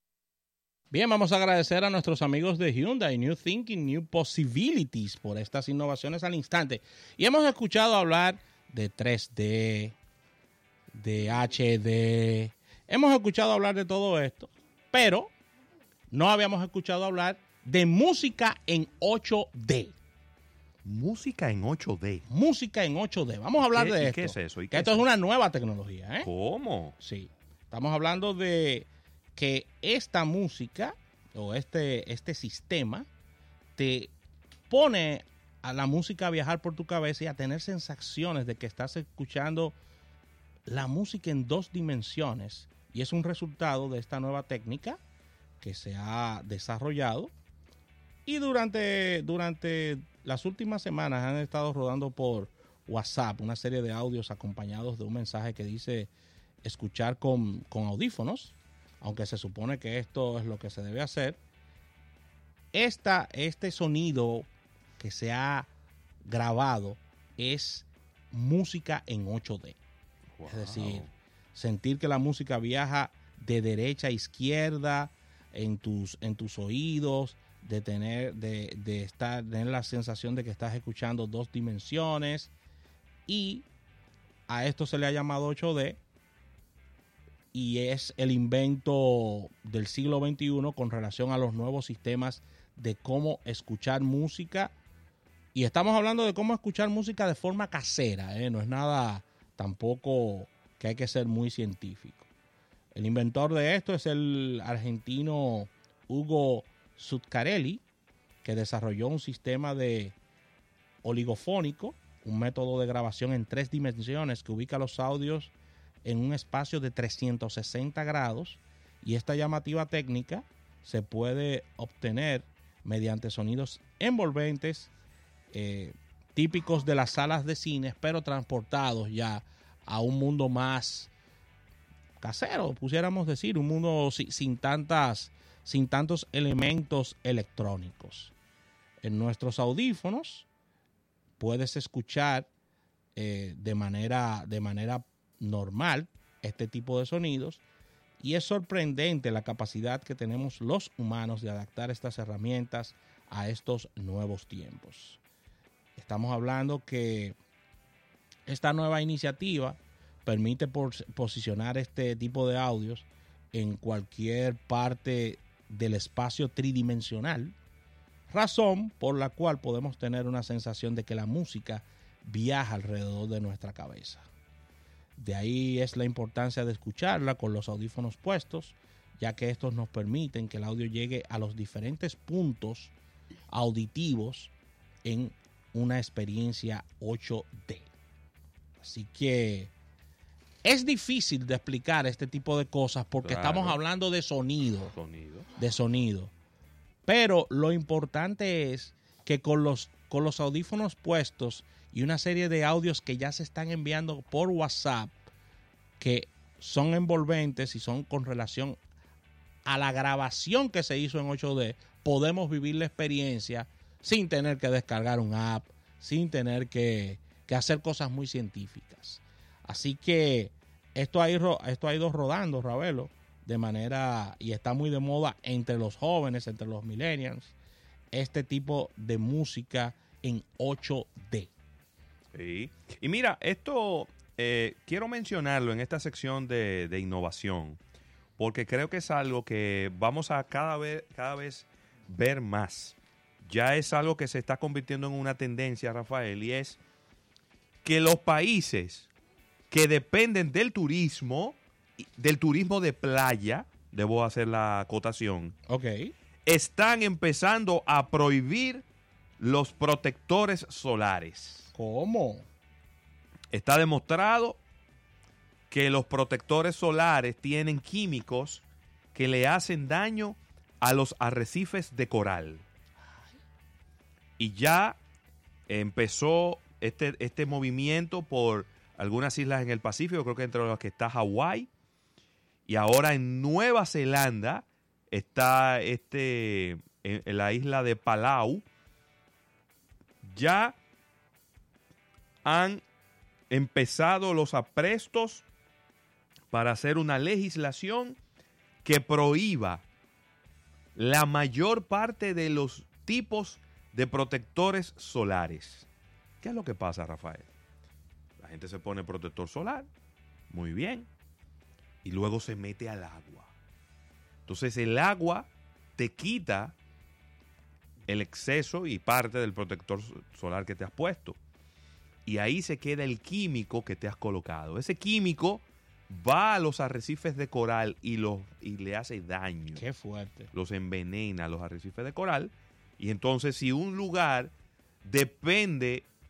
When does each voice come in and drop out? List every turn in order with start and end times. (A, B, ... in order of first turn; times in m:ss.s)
0:00.9-0:10.0 A
0:10.9-0:15.3 A
0:16.1-0:20.0 A
0:20.8-0:22.2 B
0:22.3-0:26.3 A
0:23.6-0:25.1 B
0:26.2-0:27.0 B
0:27.0-0:33.1 A
0:33.8-0:34.1 A
0:34.7-0:39.8 A
0:40.7-0:45.0 A
0:45.6-0:47.3 A
0:48.3-0:56.1 A
0:56.6-1:01.4 A
1:02.7-1:05.7 A
1:06.2-1:09.8 A
1:10.4-1:11.1 B
1:10.4-1:22.5 A
1:23.3-1:23.7 A
1:24.5-1:26.0 A
1:27.5-1:34.7 A
1:35.5-1:42.3 A
1:42.9-1:47.8 A
1:48.4-1:50.2 A
1:51.0-2:04.9 A
2:05.5-2:11.1 A
2:12.2-2:18.3 A
2:19.0-2:20.5 A
2:21.4-2:22.5 A
2:23.2-2:27.6 A
2:28.2-2:35.2 A
2:36.0-2:37.4 A
2:38.5-2:47.6 A
2:48.3-2:54.3 A
2:55.2-3:02.9 A
3:03.5-3:04.5 A
3:05.0-3:07.9 A
3:08.8-3:09.7 A
3:10.6-3:15.0 A
3:13.2-3:13.8 B
3:14.9-3:15.5 B
3:15.6-3:16.3 A
3:17.0-3:25.2 A
3:26.0-3:28.8 A
3:29.6-3:47.6 A
3:48.1-3:51.5 A
3:52.3-3:57.8 B
3:58.4-4:06.8 B
4:07.8-4:09.1 B
4:09.7-4:15.6 B
4:15.7-4:16.1 A
4:16.5-4:18.8 B
4:19.4-4:21.7 B
4:21.7-4:22.5 A
4:23.5-4:24.6 B
4:25.7-4:32.6 B
4:34.4-4:35.0 B
4:35.7-4:41.7 B
4:42.7-4:48.6 B
4:50.2-4:50.8 B
4:52.4-4:52.8 B
4:53.5-4:55.4 B
4:56.5-4:58.2 B
4:58.8-4:59.8 B
5:01.0-5:05.9 B
5:06.4-5:07.5 B
5:08.4-5:09.9 B
5:10.5-5:11.1 B
5:12.0-5:13.5 B
5:14.5-5:16.8 B
5:18.1-5:21.4 B
5:22.3-5:29.8 B
5:29.8-5:30.5 A
5:30.5-5:34.5 B
5:35.0-5:36.1 B